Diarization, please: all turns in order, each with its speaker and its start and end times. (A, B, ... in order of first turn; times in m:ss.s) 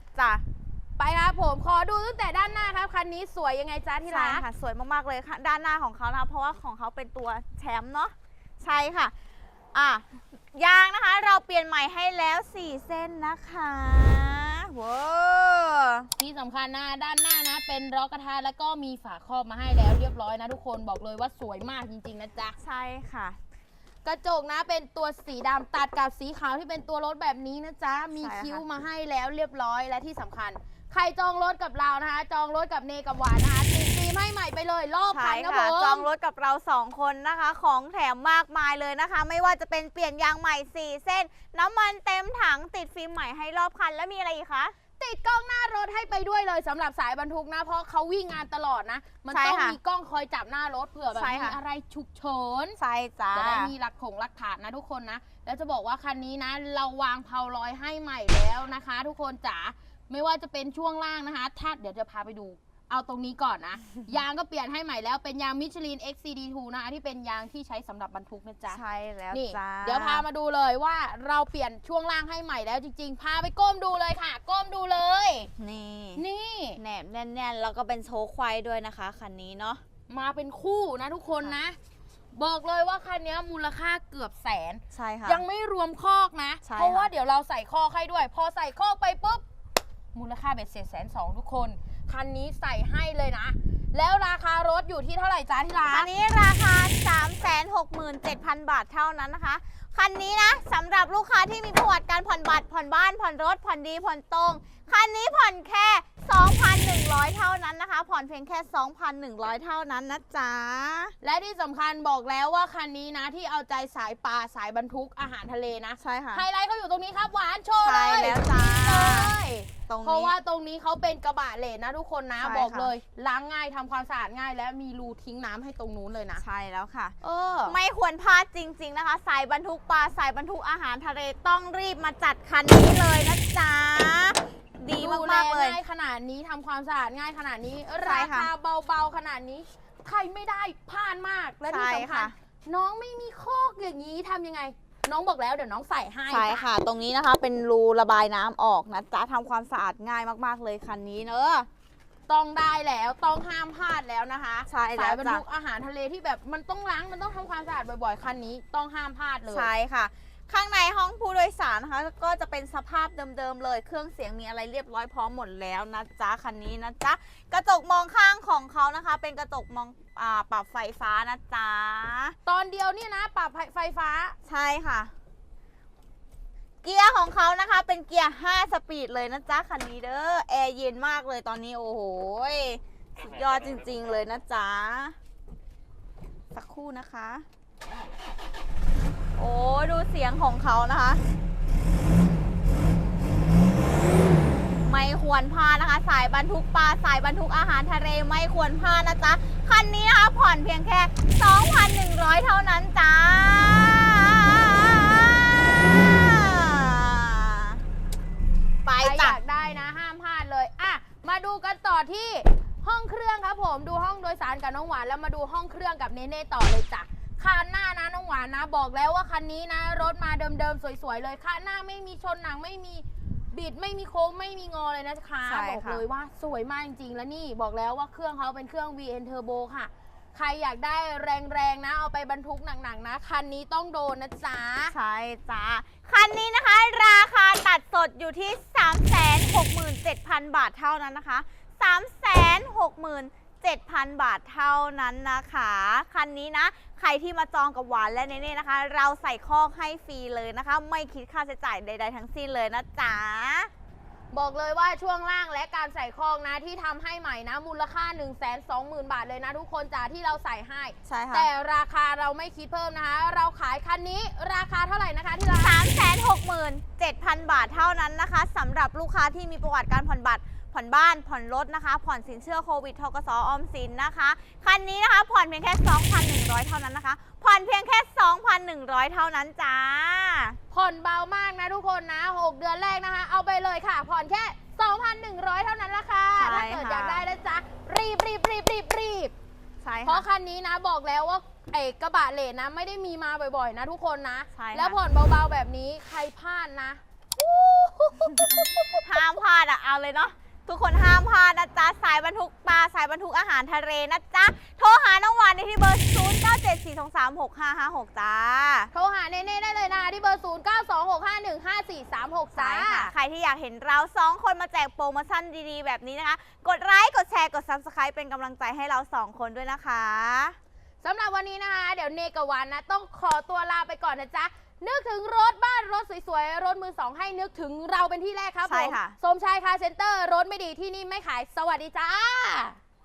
0:00.2-0:00.4 A
0:01.0-0:04.4 B
0:04.0-0:09.1 A
0:09.7-0:16.1 A
0:16.2-0:22.6 B
0:22.6-0:23.4 A
0:24.0-0:36.1 B
0:28.2-0:28.6 A
0:35.1-0:44.8 A
0:45.0-0:52.8 B
0:49.3-0:49.8 A
0:51.1-0:51.6 A
0:52.8-0:53.7 A
0:53.3-1:08.8 B
1:08.7-1:10.2 A
1:09.3-1:15.5 B
1:15.6-1:16.2 A
1:16.2-1:16.8 B
1:16.8-1:19.8 A
1:20.1-1:21.8 B
1:22.3-1:29.4 B
1:24.9-1:25.4 A
1:26.6-1:27.1 A
1:30.1-1:36.1 B
1:35.9-1:51.1 A
1:51.2-2:06.4 B
1:56.0-1:56.4 A
1:57.8-1:59.3 A
1:59.9-2:00.3 A
2:02.4-2:02.9 A
2:06.4-2:07.2 A
2:07.2-2:07.8 B
2:07.7-2:15.8 A
2:15.0-2:26.7 B
2:18.0-2:18.5 A
2:21.7-2:22.3 A
2:26.3-2:31.7 A
2:32.3-2:39.7 B
2:34.7-2:35.4 A
2:39.5-2:52.4 A
2:52.5-2:54.4 B
2:54.4-2:55.1 A
2:56.8-3:05.2 A
3:06.5-3:07.4 A
3:09.4-3:11.2 A
3:14.8-3:27.8 A
3:28.8-3:29.4 A
3:29.0-3:55.0 B
3:45.4-3:46.0 A
3:54.9-4:13.7 A
4:14.3-4:25.8 B
4:21.0-4:21.5 A
4:25.6-4:40.6 A
4:40.7-4:49.3 B
4:46.4-4:47.2 A
4:49.8-4:50.2 A
4:50.0-4:59.1 B
4:54.5-4:55.0 A
4:58.4-5:08.9 A
5:08.9-5:13.1 B
5:12.6-5:20.6 A
5:21.0-5:32.8 B
5:28.7-5:29.2 A